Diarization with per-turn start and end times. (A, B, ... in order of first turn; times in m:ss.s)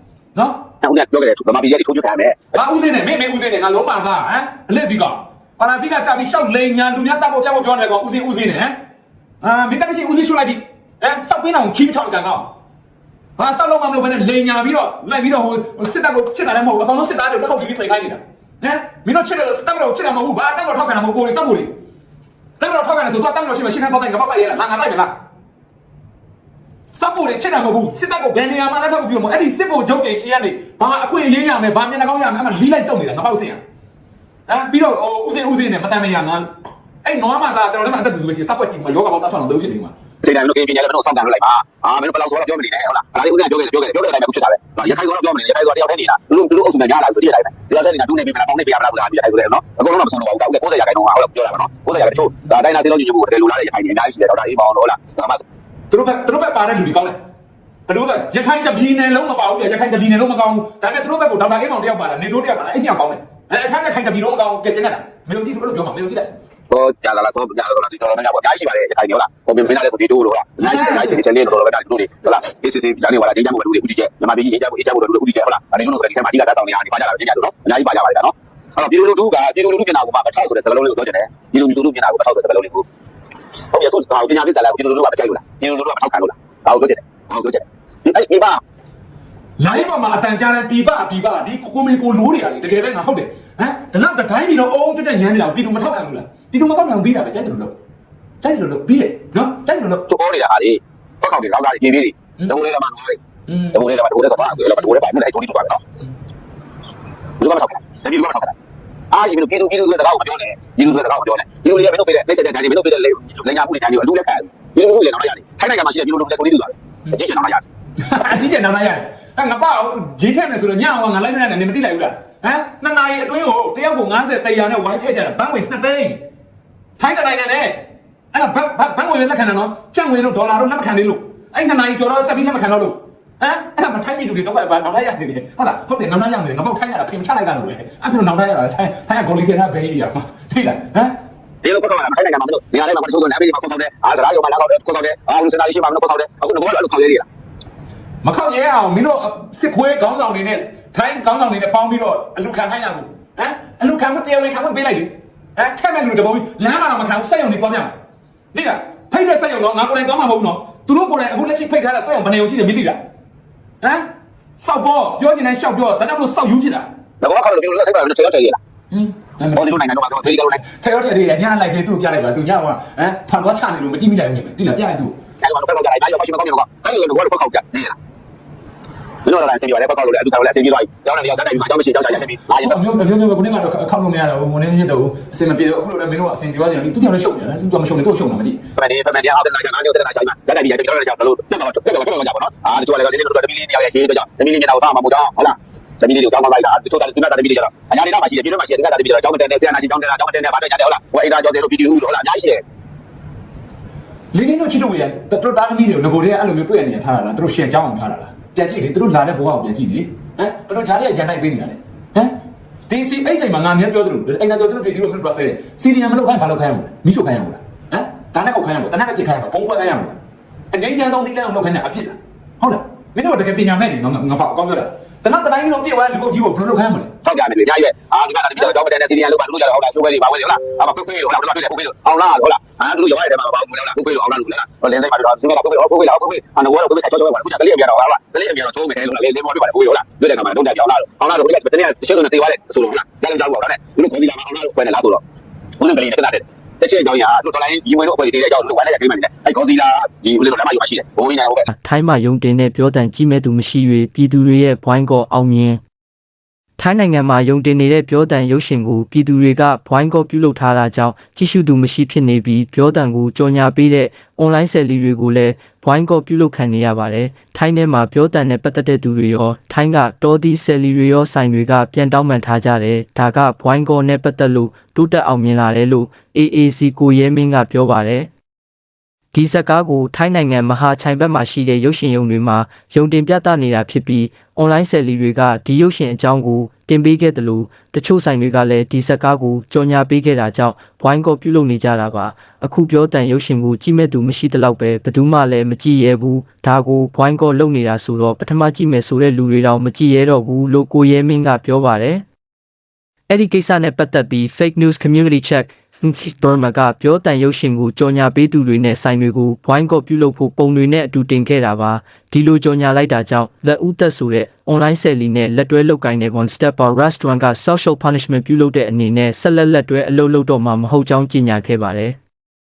0:00.3-0:00.6 A
0:00.8-0:02.5 B
0:02.5-0:08.8 A
0:09.4-0:12.5 A
0:13.4-0:21.7 A
0:22.6-0:25.1 A
0:26.9-0:33.6 A
0:34.5-0:36.5 A
0:37.0-0:39.9 A
0:40.2-0:55.4 B
0:55.9-0:57.2 A
0:57.9-1:06.3 A
1:06.7-1:22.8 B
1:10.6-1:11.2 A
1:23.7-1:28.6 B
1:29.6-1:37.8 A
1:38.4-1:40.0 A
1:40.1-1:43.2 B
1:43.5-1:43.8 A
1:43.7-1:45.8 B
1:47.4-1:48.5 B
1:49.1-1:57.6 B
1:58.0-2:06.2 A
2:07.0-2:21.2 A
2:21.6-2:27.2 B
2:28.2-2:38.0 A
2:38.5-2:43.0 A
2:43.8-2:44.1 A
2:44.6-2:46.9 A
2:47.2-2:48.6 B
2:48.9-2:55.2 A
2:49.5-2:50.6 B
2:55.4-2:58.0 B
2:59.2-3:02.8 B
3:02.6-3:08.6 A
3:08.8-3:22.6 B
3:24.3-3:32.4 A
3:32.9-3:40.2 A
3:40.7-3:47.1 A
3:47.2-4:05.2 B
4:05.8-4:11.7 B
4:11.7-4:15.8 C
4:16.8-4:38.3 C
4:39.3-5:02.2 C
5:03.3-5:22.2 C